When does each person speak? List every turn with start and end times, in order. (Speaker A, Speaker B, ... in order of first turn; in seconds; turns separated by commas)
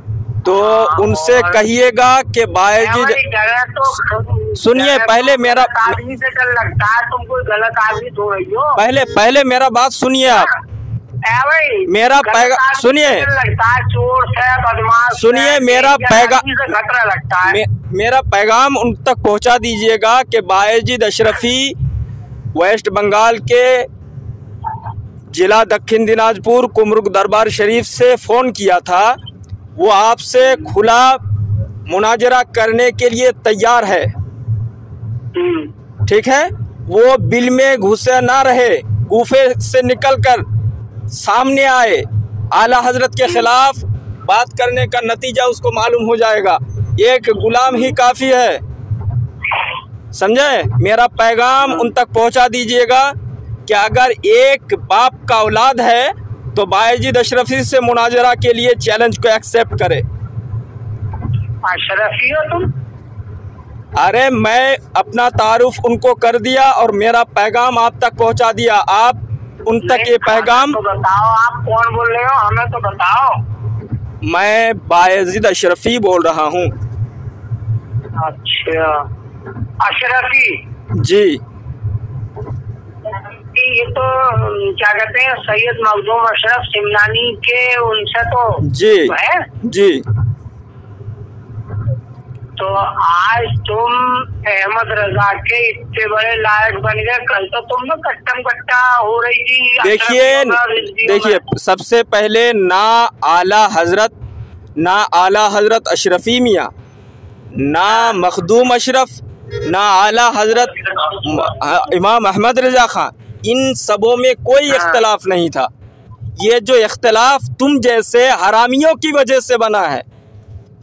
Speaker A: 0.4-3.2, Speaker B: 0.5-1.6, Speaker B: 2.8-8.8, Speaker A: 4.6-6.0, Speaker A: 8.8-10.5, Speaker B: 11.2-17.6, Speaker A: 11.9-13.3, Speaker A: 15.1-16.4, Speaker A: 17.4-21.8, Speaker A: 22.5-23.9, Speaker A: 25.3-29.2, Speaker A: 29.8-31.2, Speaker A: 31.9-34.1, Speaker B: 35.4-35.7, Speaker A: 36.1-40.5, Speaker A: 41.1-48.6, Speaker A: 50.1-53.1, Speaker A: 53.7-60.0, Speaker B: 61.6-62.7, Speaker A: 64.0-70.8, Speaker B: 69.8-73.4, Speaker A: 74.2-76.7, Speaker B: 78.2-79.1, Speaker B: 79.8-80.6, Speaker A: 81.0-81.4, Speaker B: 83.1-89.5, Speaker A: 88.6-90.0, Speaker B: 92.6-101.4, Speaker A: 99.8-104.2, Speaker A: 104.8-106.7, Speaker A: 107.5-115.7, Speaker B: 107.9-108.2, Speaker B: 114.7-115.0, Speaker A: 116.4-120.0